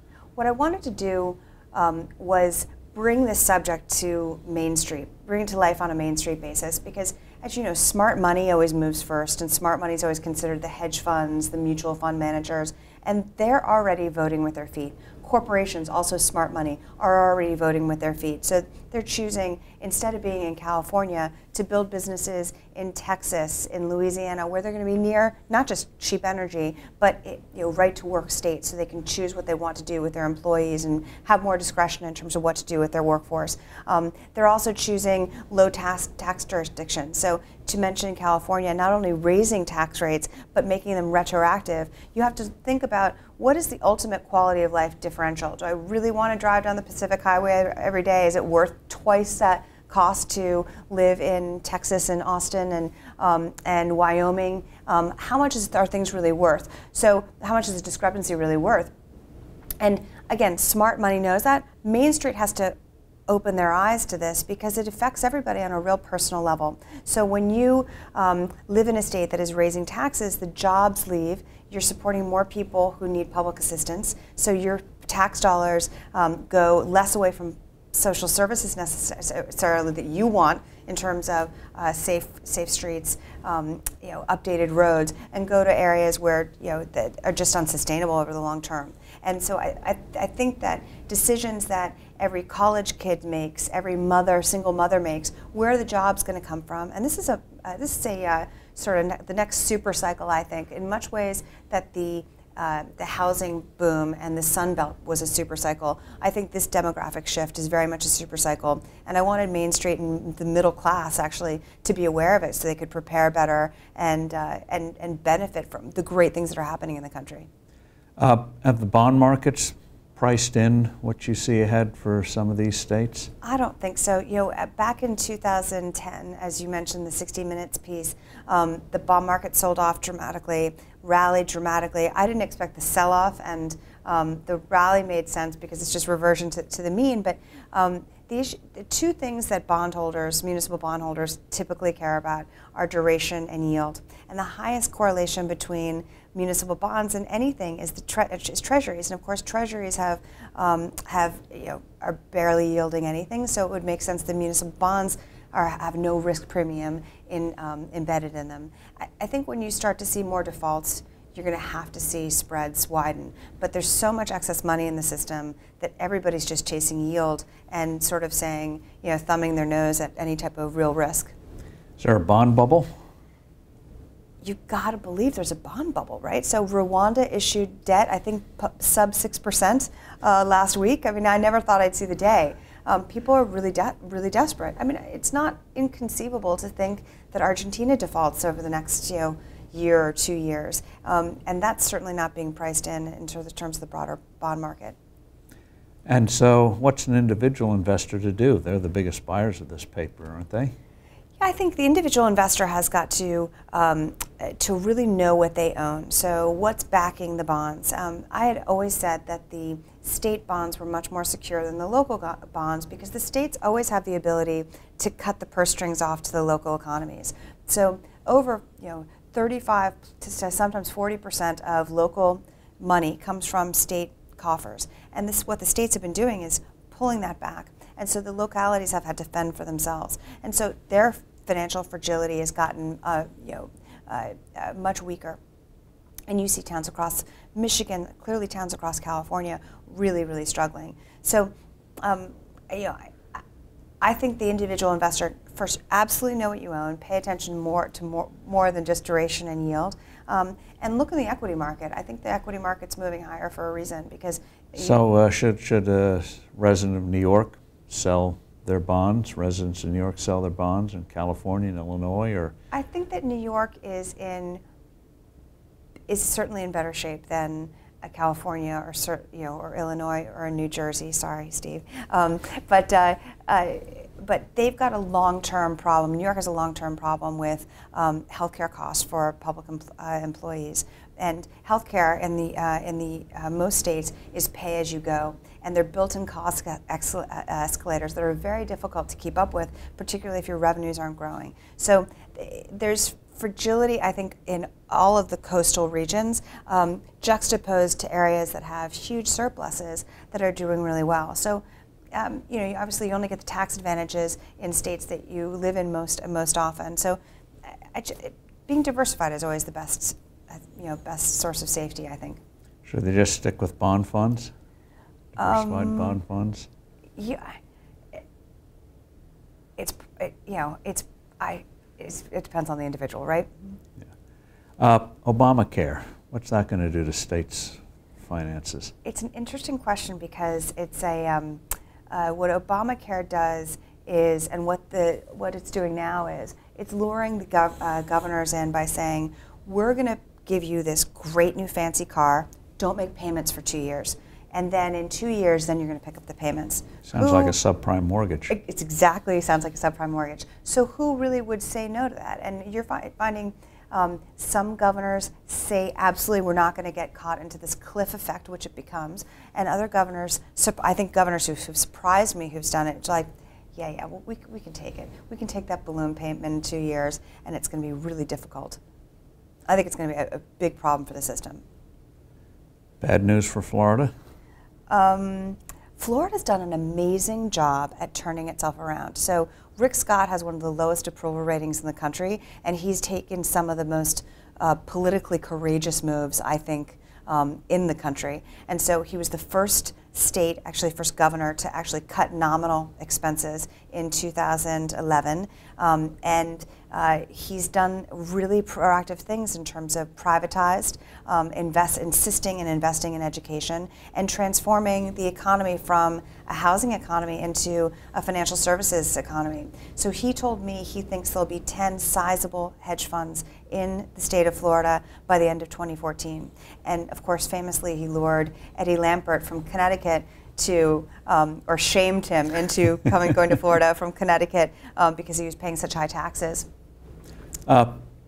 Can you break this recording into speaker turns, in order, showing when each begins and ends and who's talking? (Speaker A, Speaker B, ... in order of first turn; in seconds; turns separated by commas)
Speaker A: 0.4-58.9, Speaker A: 59.8-62.8, Speaker A: 63.3-117.5, Speaker B: 118.2-123.3, Speaker A: 123.4-171.3, Speaker B: 172.0-172.9, Speaker A: 174.4-195.0, Speaker B: 196.1-200.7, Speaker A: 201.4-235.4, Speaker A: 236.3-243.4, Speaker A: 244.0-254.9, Speaker B: 254.8-262.6, Speaker A: 262.7-264.6, Speaker A: 266.1-312.4, Speaker B: 312.9-314.5, Speaker B: 315.4-316.7, Speaker A: 315.4-316.2, Speaker A: 317.2-317.6, Speaker A: 319.8-323.5, Speaker B: 324.8-328.9, Speaker A: 329.1-347.6, Speaker B: 347.1-348.6, Speaker A: 348.5-368.8, Speaker A: 369.7-371.6, Speaker B: 373.0-374.1, Speaker A: 374.9-426.7, Speaker B: 427.7-428.0